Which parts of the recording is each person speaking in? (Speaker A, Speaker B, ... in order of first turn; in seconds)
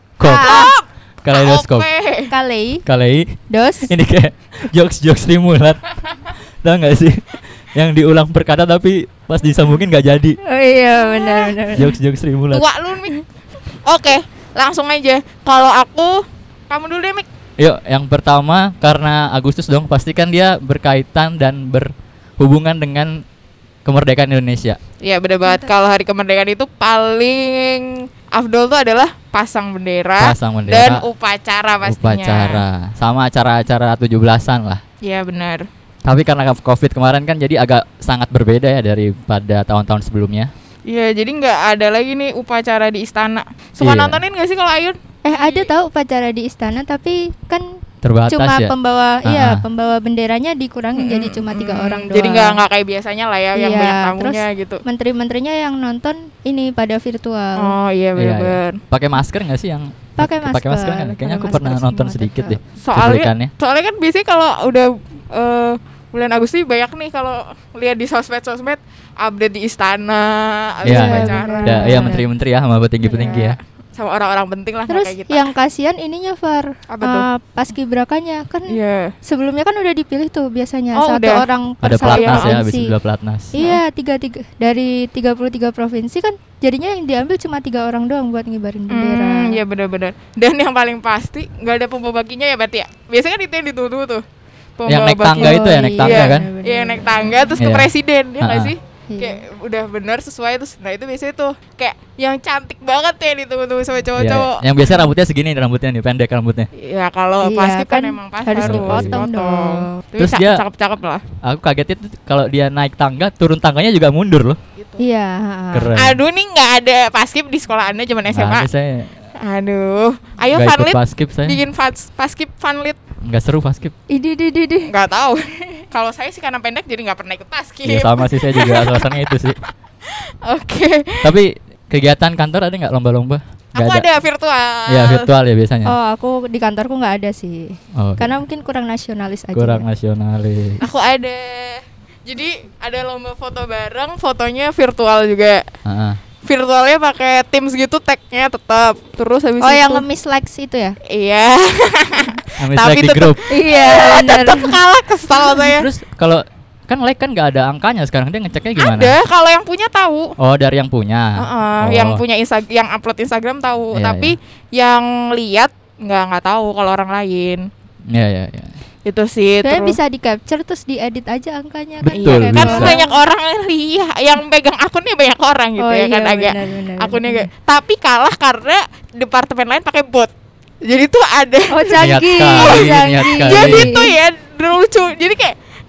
Speaker A: 0.2-0.7, 1.2-1.9, 2.8-5.8, 6.6-10.4, 11.7-12.7, 17.6-23.2, 23.8-24.8, 30.2-31.0, 31.9-34.8, 36.0-40.5, 43.8-44.2, 48.0-49.6, 58.2-63.5, 70.8-73.6, 81.8-83.5, 94.9-96.5, 97.6-98.7, 104.2-106.7, 108.6-109.2, 110.2-110.6, 111.4-114.6, 115.7-116.2, 118.3-119.1, 120.5-121.6, 123.2-123.9, 127.8-129.6, 131.2-134.1, 134.9-135.9, 137.9-138.3, 139.5-140.8, 145.8-146.2, 152.6-153.4, 155.7-159.2, 160.4-162.2, 163.9-164.3, 168.1-168.7, 172.0-173.0, 182.0-183.9
Speaker B: 0.2-0.7, 2.3-2.8, 3.5-3.9, 10.4-11.9, 45.2-52.6, 53.5-57.7, 60.2-62.6, 70.8-72.2, 74.9-82.9, 83.5-89.6, 95.3-97.3, 99.1-99.4, 107.4-110.0, 115.0-115.9, 124.1-124.9, 135.8-139.8, 149.6-151.0, 153.5-154.8, 169.6-173.2, 175.8-177.5, 181.7-184.1
Speaker C: 0.2-2.3, 11.0-11.5, 12.5-13.2, 13.8-17.3, 25.0-32.6, 35.0-35.7, 40.9-45.7, 51.0-54.8, 57.6-58.8, 62.8-72.2, 73.0-75.5, 76.9-77.3, 78.7-79.1, 80.9-81.4, 82.1-82.5, 88.9-94.2, 94.8-104.6, 106.8-111.2, 116.0-118.7, 119.4-123.0, 124.9-129.4, 130.1-131.3, 133.7-135.3, 140.8-145.7, 146.4-150.0, 151.1-155.9, 158.8-160.3, 161.4-167.7, 169.1-170.0, 172.1-180.3, 180.8-185.5